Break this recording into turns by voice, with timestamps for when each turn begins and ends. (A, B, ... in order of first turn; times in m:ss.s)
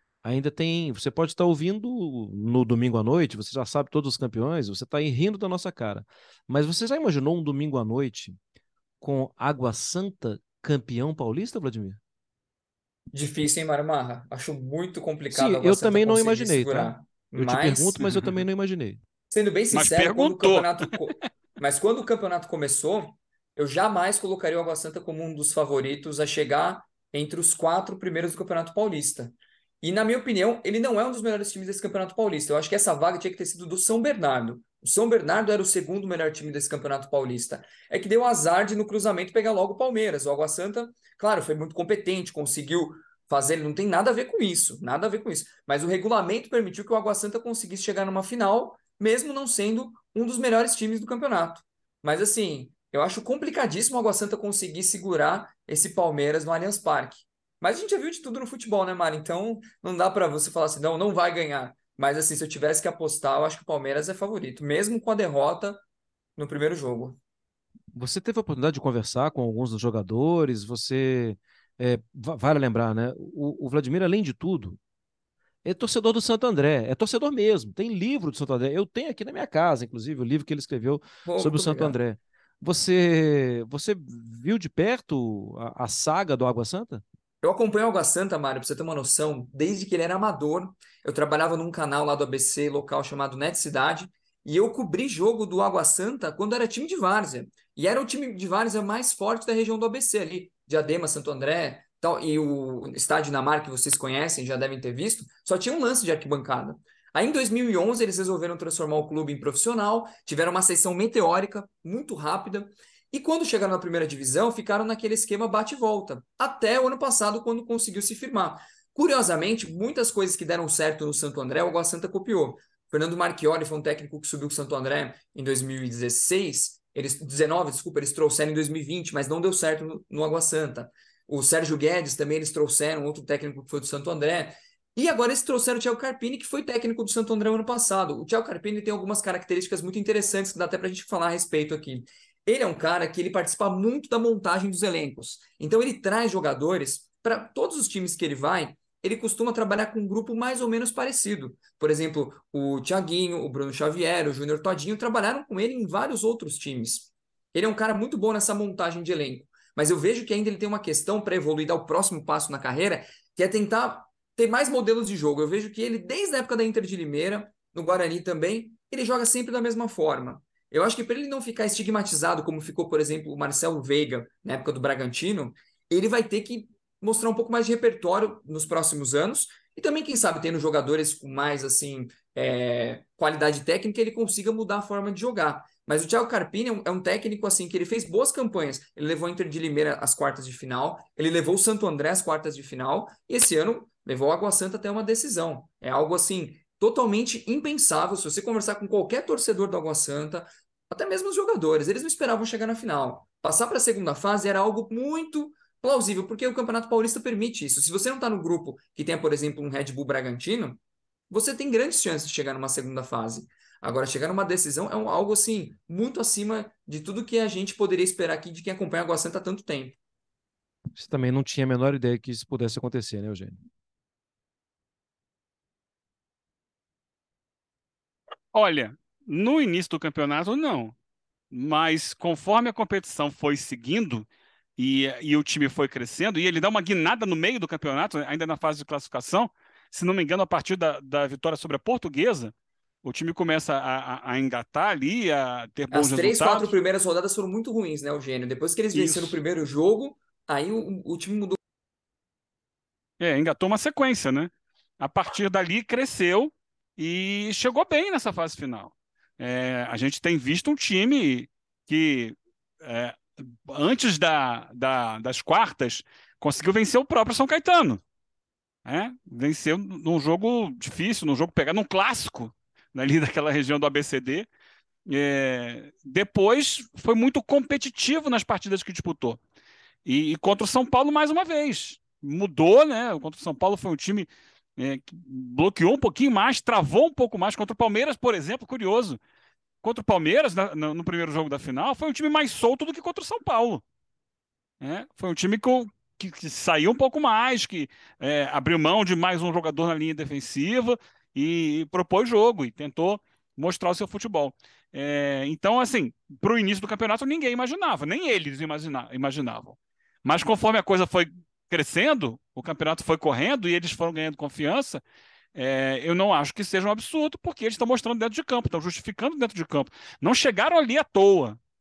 0:00.2-0:08.4 A
0:09.0-0:12.0 A
0:13.1-0:18.0 B
0:15.3-0:19.0 A
0:19.3-1:05.8 B
0:19.7-0:21.0 C
1:06.4-1:07.2 B
1:07.9-1:14.8 A
1:15.6-1:27.0 A
1:21.2-1:22.0 B
1:27.4-3:40.0 B
3:41.0-3:43.6 A
3:48.5-3:51.0 C
3:51.5-3:54.3 C
3:54.8-4:02.5 C
4:03.0-4:06.7 C
4:05.9-4:11.6 B
4:08.9-4:09.4 C
4:13.2-4:28.0 C
4:28.8-4:34.5 C
4:35.1-4:39.4 C
4:40.0-4:49.2 C
4:49.8-4:53.8 C
4:54.8-5:15.0 C
5:15.6-5:21.6 C